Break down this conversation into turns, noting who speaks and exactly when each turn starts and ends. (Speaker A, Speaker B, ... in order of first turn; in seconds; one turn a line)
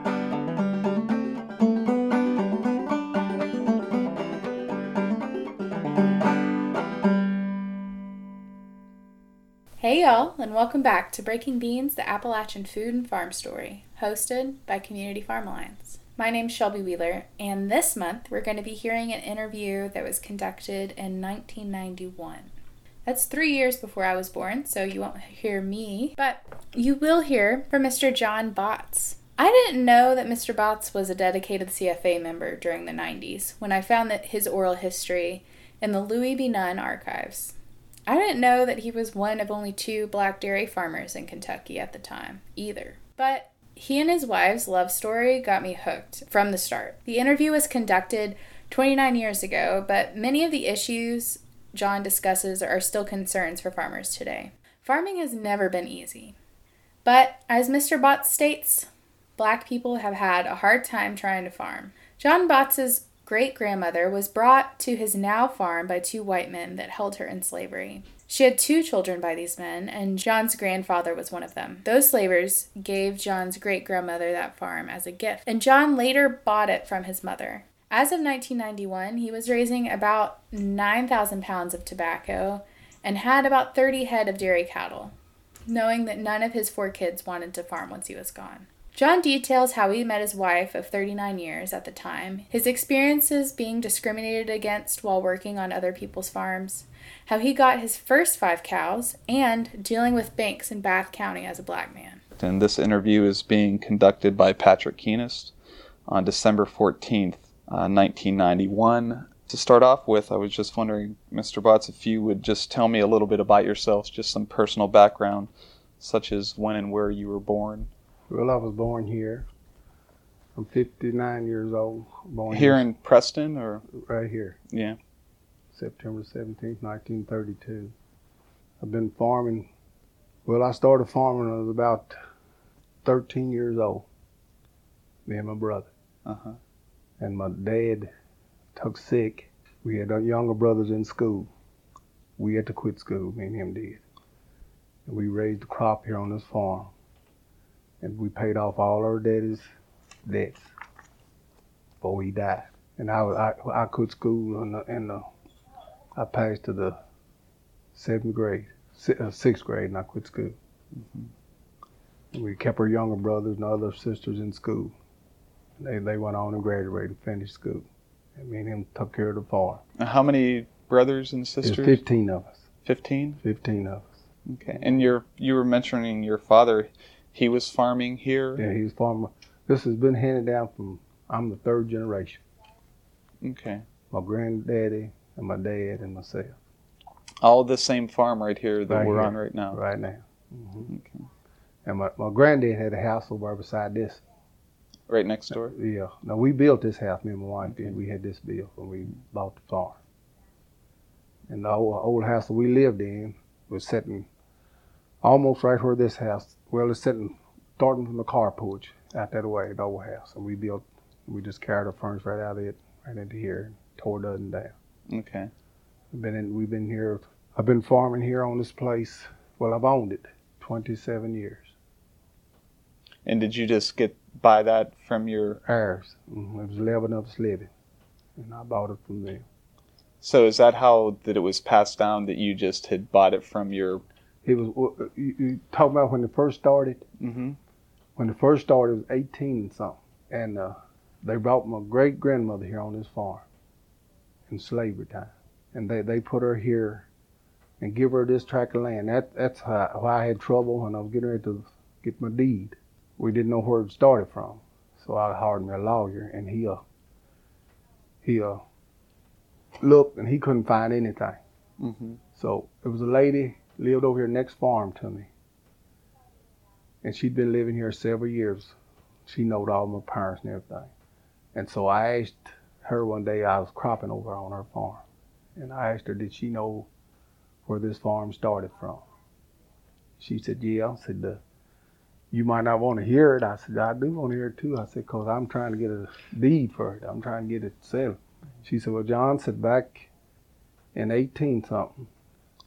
Speaker A: 9.8-22.5
Speaker A: 23.1-37.5
Speaker A: 38.1-56.4
Speaker A: 57.0-85.2
Speaker A: 85.7-102.2
Speaker B: 102.4-105.5
Speaker B: 106.1-117.9
Speaker C: 118.3-119.5
Speaker C: 120.5-122.8
Speaker B: 122.5-123.8
Speaker C: 123.9-124.6
Speaker B: 124.7-125.0
Speaker C: 125.7-127.9
Speaker C: 128.8-129.7
Speaker C: 130.5-132.2
Speaker C: 133.0-134.1
Speaker C: 135.3-135.9
Speaker B: 136.3-136.6
Speaker C: 137.2-138.1
Speaker C: 138.8-141.5
Speaker C: 142.4-144.0
Speaker C: 145.1-146.9
Speaker C: 148.0-149.7
Speaker C: 150.2-150.7
Speaker C: 152.0-155.3
Speaker C: 156.2-157.0
Speaker C: 157.9-160.6
Speaker B: 161.0-161.3
Speaker C: 162.3-164.9
Speaker C: 165.8-169.8
Speaker B: 170.0-172.0
Speaker C: 171.6-172.7
Speaker B: 172.9-173.4
Speaker C: 173.4-174.2
Speaker B: 174.5-178.6
Speaker C: 178.6-182.4
Speaker B: 183.4-183.8
Speaker C: 184.1-186.6
Speaker B: 187.4-189.8
Speaker C: 188.9-190.9
Speaker B: 190.9-191.3
Speaker C: 191.8-194.2
Speaker B: 195.1-195.8
Speaker C: 195.7-200.0
Speaker C: 201.5-204.3
Speaker C: 205.2-214.8
Speaker B: 215.1-215.5
Speaker C: 216.1-221.8
Speaker B: 223.2-225.6
Speaker C: 225.7-227.7
Speaker C: 228.4-229.4
Speaker B: 230.2-234.0
Speaker C: 234.4-237.1
Speaker B: 237.2-237.6
Speaker C: 238.2-243.5
Speaker C: 244.5-247.1
Speaker C: 247.8-256.8
Speaker C: 258.2-258.6
Speaker C: 259.8-261.4
Speaker B: 261.8-262.2
Speaker C: 262.4-265.3
Speaker C: 267.0-268.8
Speaker C: 269.3-270.9
Speaker C: 271.5-275.0
Speaker C: 275.6-276.9
Speaker C: 277.6-279.0
Speaker C: 280.2-281.4
Speaker C: 282.3-290.1
Speaker C: 290.9-292.1